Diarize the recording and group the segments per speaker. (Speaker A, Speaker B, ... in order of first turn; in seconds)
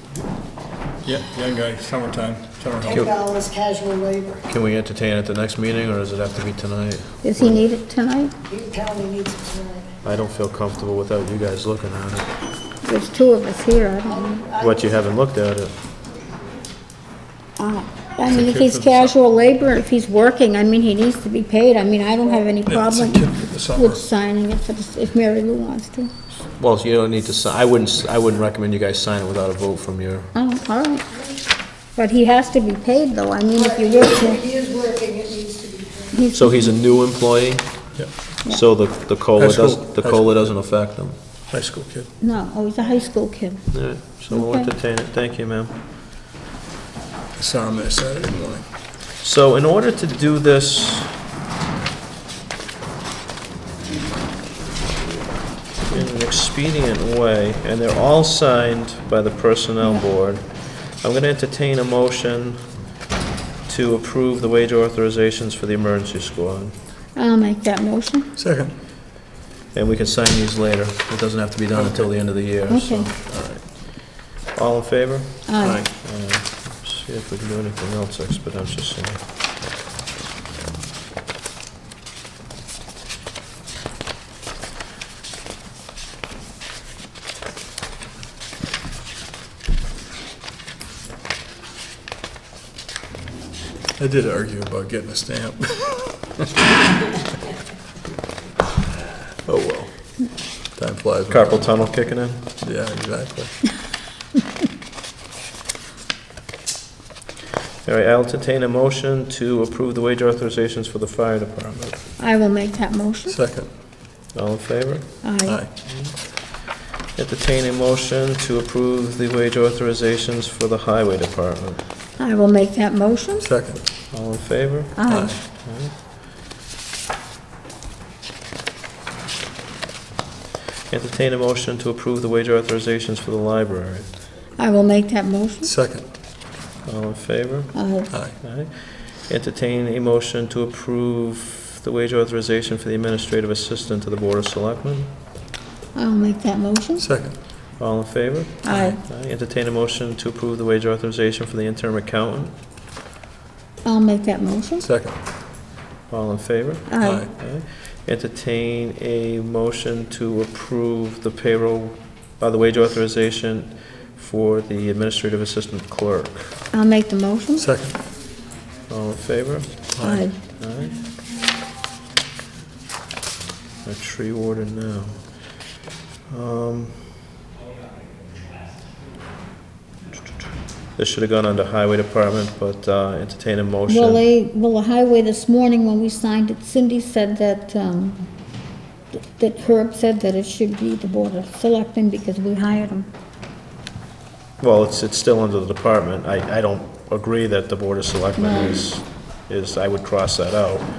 Speaker A: 1.0-3.1, 18.3-19.1, 22.6-24.0, 39.4-40.5, 41.5-42.1, 47.4-48.6, 68.4-68.8, 71.8-72.2, 75.6-75.9, 94.0-96.5, 100.8-102.0, 102.6-103.5, 113.3-113.7, 123.4-123.8, 125.1-125.4, 135.6-136.0, 147.0-147.4, 154.8-155.2, 157.0-157.3, 167.6-168.0, 169.9-170.3
Speaker B: 2.9-4.4, 8.5-9.9, 14.1-14.9, 33.5-36.2
Speaker C: 4.5-7.7, 10.0-12.3, 14.6-15.8, 26.6-30.3, 36.3-41.2, 43.7-45.8, 49.2-51.2, 55.9-62.7, 63.7-66.8, 69.7-73.9, 74.5-79.2, 99.5-99.9, 101.3-102.5, 107.8-112.0, 114.3-115.3, 115.8-121.8, 124.1-125.9, 130.9-134.1, 136.8-137.8, 138.4-145.1, 147.8-152.5, 156.1-166.6, 168.9-169.9, 170.6-171.0, 173.8-175.7, 176.3-177.2, 181.0-184.2, 194.6-200.9
Speaker D: 7.2-8.3, 12.8-14.4, 17.6-26.1, 30.3-31.1, 32.0-34.5, 36.1-36.7, 42.2-43.7, 44.3-44.7, 67.2-68.3, 72.7-73.1, 75.5-75.9, 112.2-113.4, 115.2-115.6, 122.2-123.5, 125.0-125.4, 134.6-135.7, 137.7-138.1, 145.9-147.1, 148.6-149.0, 153.8-154.9, 156.9-157.2, 166.7-167.7, 170.0-170.4, 183.9-188.3, 189.4-193.1, 198.4-198.8